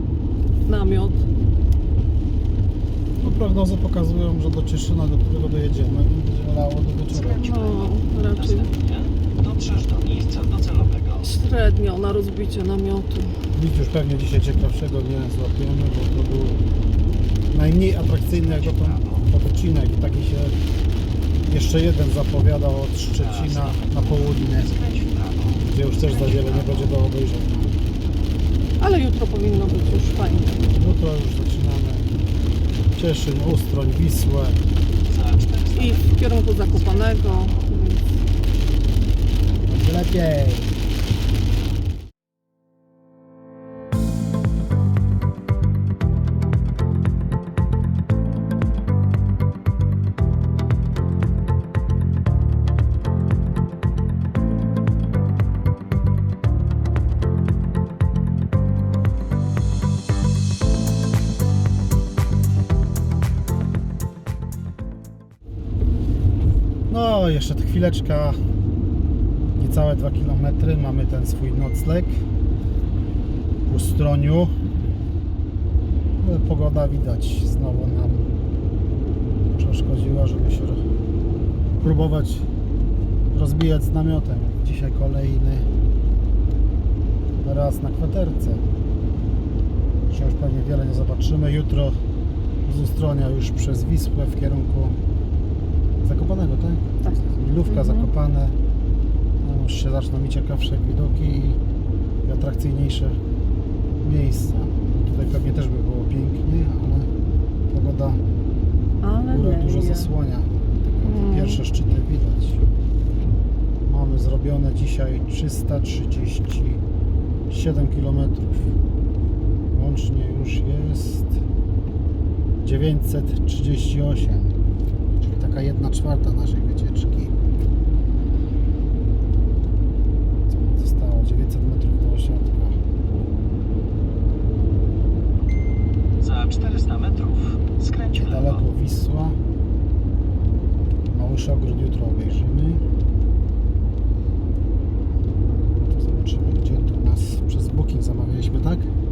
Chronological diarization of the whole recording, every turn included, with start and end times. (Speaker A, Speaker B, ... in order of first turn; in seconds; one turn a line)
Speaker A: 0.7-1.2
Speaker B: 3.2-7.5
Speaker C: 7.1-11.4
Speaker A: 7.4-8.7
Speaker A: 11.2-13.4
Speaker B: 13.5-16.6
Speaker B: 17.5-20.6
Speaker C: 18.3-19.3
Speaker B: 21.5-24.8
Speaker C: 23.1-27.0
Speaker B: 25.6-27.8
Speaker A: 28.8-30.8
Speaker B: 30.7-32.2
Speaker B: 33.0-34.6
Speaker C: 35.1-37.7
Speaker A: 35.7-38.1
Speaker B: 39.6-40.8
Speaker B: 66.9-68.4
Speaker B: 69.6-72.2
Speaker B: 73.7-74.5
Speaker B: 76.2-78.3
Speaker B: 79.6-80.8
Speaker B: 81.8-82.5
Speaker B: 83.3-85.7
Speaker B: 87.4-88.6
Speaker B: 90.1-92.0
Speaker B: 92.6-95.0
Speaker B: 96.0-98.5
Speaker A: 97.0-98.1
Speaker B: 99.4-101.6
Speaker B: 102.2-103.2
Speaker B: 104.0-107.1
Speaker B: 107.7-108.2
Speaker A: 109.0-110.1
Speaker B: 109.3-112.6
Speaker A: 111.0-111.6
Speaker B: 113.9-116.8
Speaker B: 117.5-118.8
Speaker B: 119.7-121.4
Speaker B: 122.6-124.6
Speaker B: 125.2-127.3
Speaker B: 130.5-132.8
Speaker C: 136.2-138.7
Speaker B: 138.1-139.4
Speaker B: 141.1-142.8
Speaker B: 145.6-148.9